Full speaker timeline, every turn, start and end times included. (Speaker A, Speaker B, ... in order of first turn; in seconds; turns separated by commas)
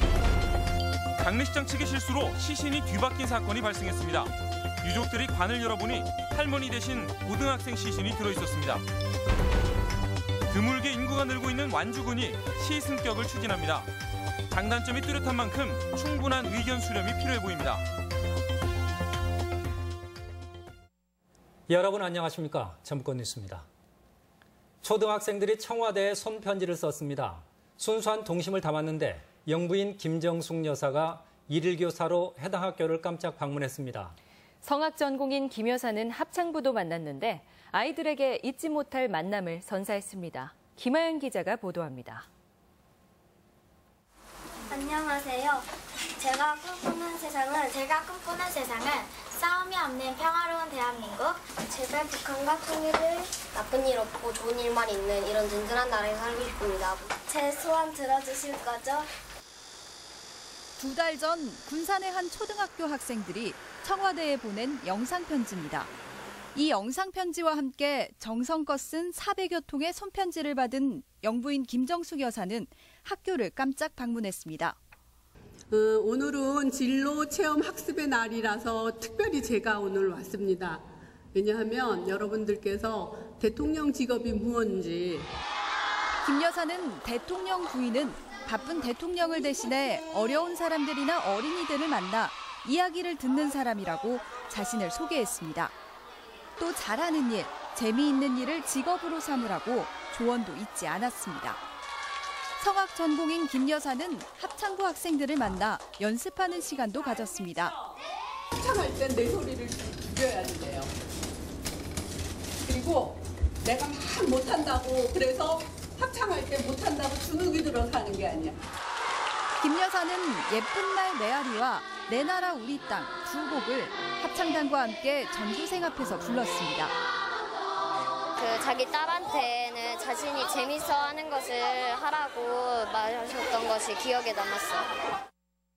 Speaker A: 1.2-8.8, Speaker A: 10.5-13.9, Speaker A: 14.5-17.9, Speaker B: 21.7-23.7, Speaker B: 24.8-34.1, Speaker C: 34.6-42.3, Speaker D: 44.7-45.6, Speaker D: 46.2-53.4, Speaker E: 53.4-57.4, Speaker D: 57.3-59.1, Speaker F: 60.8-65.9, Speaker F: 66.5-74.8, Speaker G: 75.7-80.8, Speaker G: 81.3-85.3, Speaker F: 86.2-95.7, Speaker F: 96.6-101.6, Speaker F: 102.6-107.7, Speaker G: 108.6-110.9, Speaker G: 112.7-118.6, Speaker F: 119.6-126.9, Speaker E: 128.4-134.9